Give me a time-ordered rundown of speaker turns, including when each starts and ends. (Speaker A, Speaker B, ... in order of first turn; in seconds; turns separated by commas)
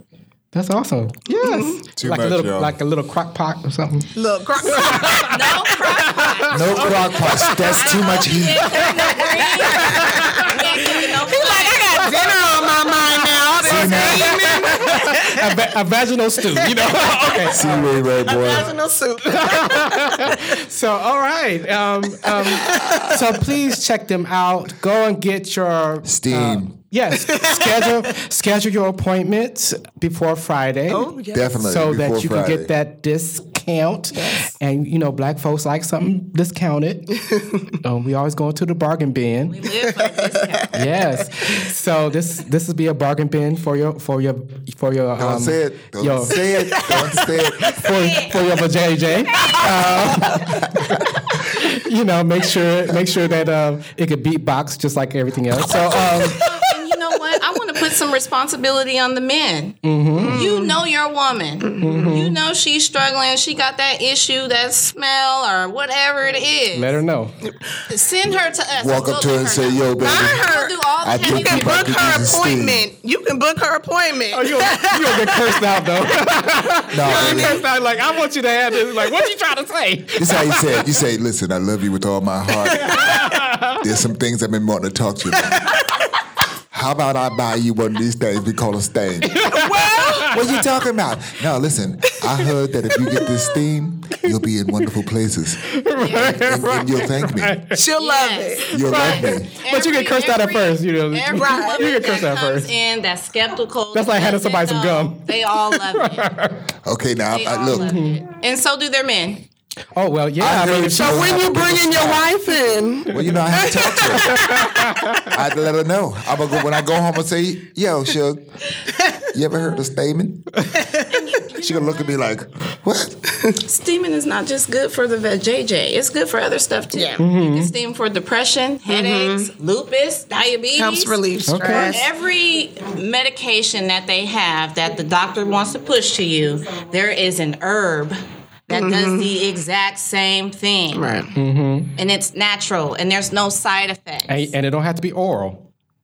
Speaker A: 0.5-4.1, Speaker B: 1.3-1.8, Speaker C: 2.0-2.8, Speaker B: 4.2-5.7, Speaker A: 4.7-7.7, Speaker D: 4.7-12.2, Speaker C: 6.5-8.8, Speaker B: 9.1-15.5, Speaker A: 9.2-10.5, Speaker C: 13.6-14.4, Speaker A: 13.9-17.9, Speaker B: 16.7-20.4, Speaker C: 17.5-18.8, Speaker A: 19.3-31.1, Speaker B: 22.2-23.3, Speaker C: 26.1-26.7, Speaker B: 27.3-27.9, Speaker B: 30.9-31.6, Speaker C: 31.3-32.7, Speaker A: 31.6-37.2, Speaker B: 34.1-34.5, Speaker B: 37.3-37.6, Speaker A: 37.8-39.6, Speaker D: 39.5-41.1, Speaker A: 40.7-46.4, Speaker C: 45.2-47.9, Speaker B: 46.5-47.2, Speaker A: 47.2-56.4, Speaker D: 49.3-50.3, Speaker B: 49.4-49.7, Speaker C: 50.4-50.9, Speaker B: 56.0-56.6, Speaker D: 56.1-59.8, Speaker A: 59.8-60.4, Speaker B: 60.2-60.8, Speaker D: 60.3-67.0, Speaker B: 61.6-62.2, Speaker A: 61.8-62.4, Speaker A: 66.7-67.4, Speaker D: 67.9-72.0, Speaker C: 68.8-70.5, Speaker B: 70.0-75.6, Speaker C: 71.0-72.8, Speaker A: 74.3-80.9, Speaker C: 76.9-77.6, Speaker B: 77.0-77.7, Speaker C: 80.2-83.2, Speaker A: 82.8-83.8, Speaker C: 83.8-85.8, Speaker C: 86.7-89.4, Speaker A: 89.2-90.3, Speaker B: 89.5-90.4, Speaker C: 90.3-97.6, Speaker A: 95.7-97.8, Speaker D: 96.0-96.4, Speaker B: 97.7-98.7, Speaker D: 98.0-106.3, Speaker C: 98.7-99.5, Speaker A: 98.8-102.7, Speaker B: 101.3-101.9, Speaker A: 103.9-106.6, Speaker C: 106.8-108.0, Speaker D: 107.3-109.5, Speaker A: 107.7-108.2, Speaker A: 110.0-111.4, Speaker C: 110.4-112.3, Speaker B: 110.8-115.1, Speaker C: 113.1-114.5, Speaker A: 114.2-115.3, Speaker C: 115.3-118.5, Speaker C: 119.3-120.5, Speaker D: 121.1-122.2, Speaker C: 121.5-123.2, Speaker D: 123.6-141.1, Speaker A: 127.2-127.7, Speaker B: 128.9-129.5, Speaker B: 130.8-132.1, Speaker A: 131.5-131.9, Speaker B: 138.7-139.3, Speaker B: 140.9-141.3, Speaker A: 141.3-141.9, Speaker D: 142.0-144.5, Speaker A: 144.3-145.7